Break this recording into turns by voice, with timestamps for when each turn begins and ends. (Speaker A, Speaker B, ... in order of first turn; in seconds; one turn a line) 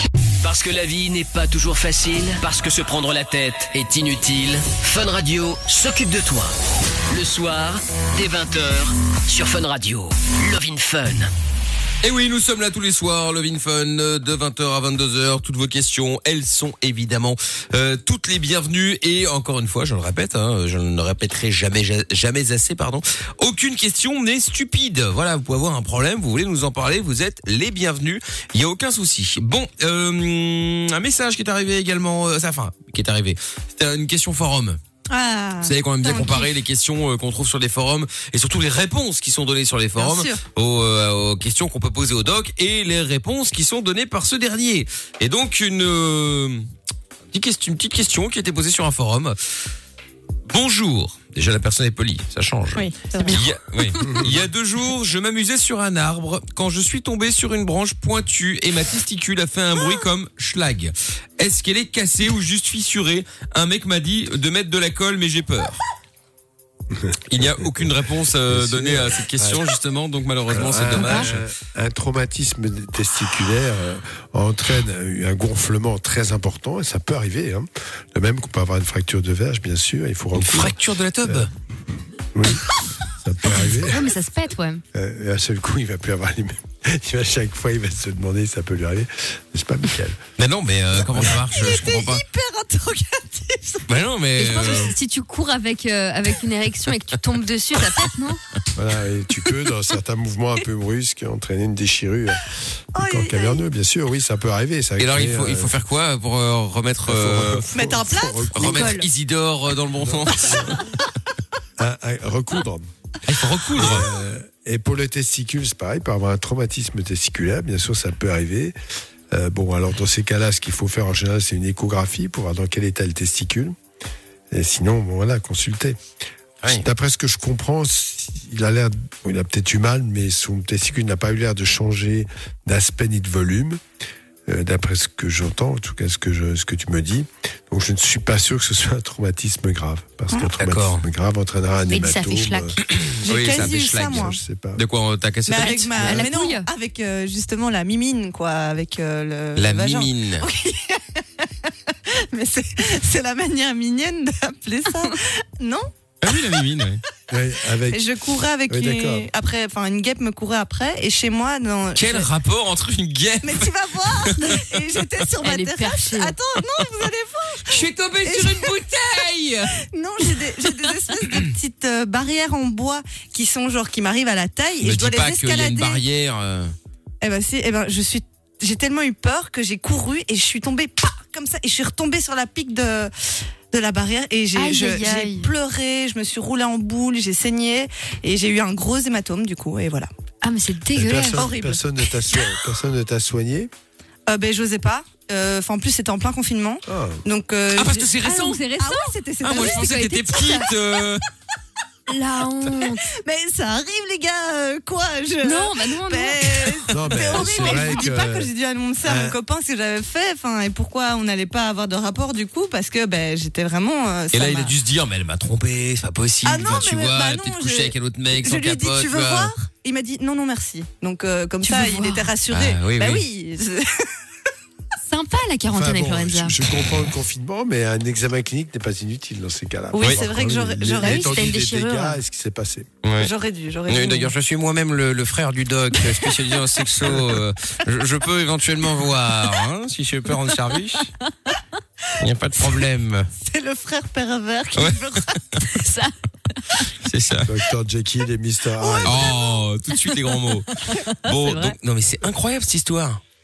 Speaker A: 0.4-6.5
Speaker A: 7.1-11.3
Speaker B: 12.0-34.8
Speaker C: 35.1-36.5
Speaker B: 35.6-46.6
Speaker C: 40.0-40.4
Speaker B: 47.3-49.4
Speaker B: 50.5-65.8
Speaker C: 52.7-53.5
Speaker D: 54.0-54.4
Speaker D: 66.9-67.9
Speaker B: 67.3-71.4
Speaker D: 68.5-69.6
Speaker D: 70.5-81.5
Speaker E: 71.0-71.3
Speaker B: 80.3-81.5
Speaker D: 82.3-84.1
Speaker E: 83.8-84.8
Speaker D: 84.9-90.2
Speaker B: 90.4-92.2
Speaker D: 91.0-91.3
Speaker C: 91.2-93.9
Speaker B: 93.9-94.9
Speaker E: 94.3-98.4
Speaker D: 98.7-105.8
Speaker C: 103.0-103.6
Speaker B: 105.0-107.6
Speaker D: 107.0-109.0
Speaker C: 107.7-109.1
Speaker B: 108.5-110.8
Speaker D: 110.0-110.8
Speaker D: 111.8-112.9
Speaker B: 113.2-114.1
Speaker D: 113.8-118.7
Speaker D: 119.3-123.7
Speaker D: 124.5-126.0
Speaker D: 126.6-133.8
Speaker D: 134.5-142.8
Speaker B: 140.6-141.0
Speaker E: 141.9-142.8
Speaker B: 142.8-146.2
Speaker C: 143.2-144.4
Speaker D: 143.5-144.8
Speaker C: 145.5-156.7
Speaker E: 145.6-146.7
Speaker B: 149.6-150.4
Speaker B: 156.2-157.0
Speaker D: 157.3-158.1
Speaker C: 157.9-162.3
Speaker D: 158.7-159.3
Speaker B: 161.9-164.6
Speaker C: 163.4-168.7
Speaker E: 165.4-166.3
Speaker B: 167.7-169.8
Speaker C: 169.8-176.0
Speaker B: 171.2-171.5
Speaker B: 174.8-176.7
Speaker C: 177.2-183.1
Speaker C: 183.7-190.1
Speaker E: 184.5-185.5
Speaker E: 190.4-191.5
Speaker D: 190.9-193.7
Speaker C: 191.3-192.5
Speaker C: 194.3-200.6
Speaker D: 196.9-197.2
Speaker B: 197.7-201.2
Speaker E: 198.3-200.7
Speaker E: 202.1-203.0
Speaker C: 202.7-214.7
Speaker E: 205.4-208.1
Speaker D: 206.9-208.5
Speaker D: 209.0-209.3
Speaker B: 214.3-219.5
Speaker C: 216.4-224.1
Speaker E: 221.6-222.3
Speaker B: 222.5-223.2
Speaker E: 225.1-226.6
Speaker D: 225.7-232.9
Speaker C: 229.9-231.4
Speaker E: 231.0-232.2
Speaker B: 233.0-233.3
Speaker C: 233.2-234.3
Speaker B: 233.9-241.1
Speaker E: 241.3-241.5
Speaker B: 242.2-243.3
Speaker C: 243.4-245.8
Speaker B: 244.7-245.4
Speaker E: 245.7-246.1
Speaker B: 246.9-247.5
Speaker D: 247.4-249.3
Speaker C: 248.8-249.6
Speaker B: 249.0-253.2
Speaker E: 250.9-251.7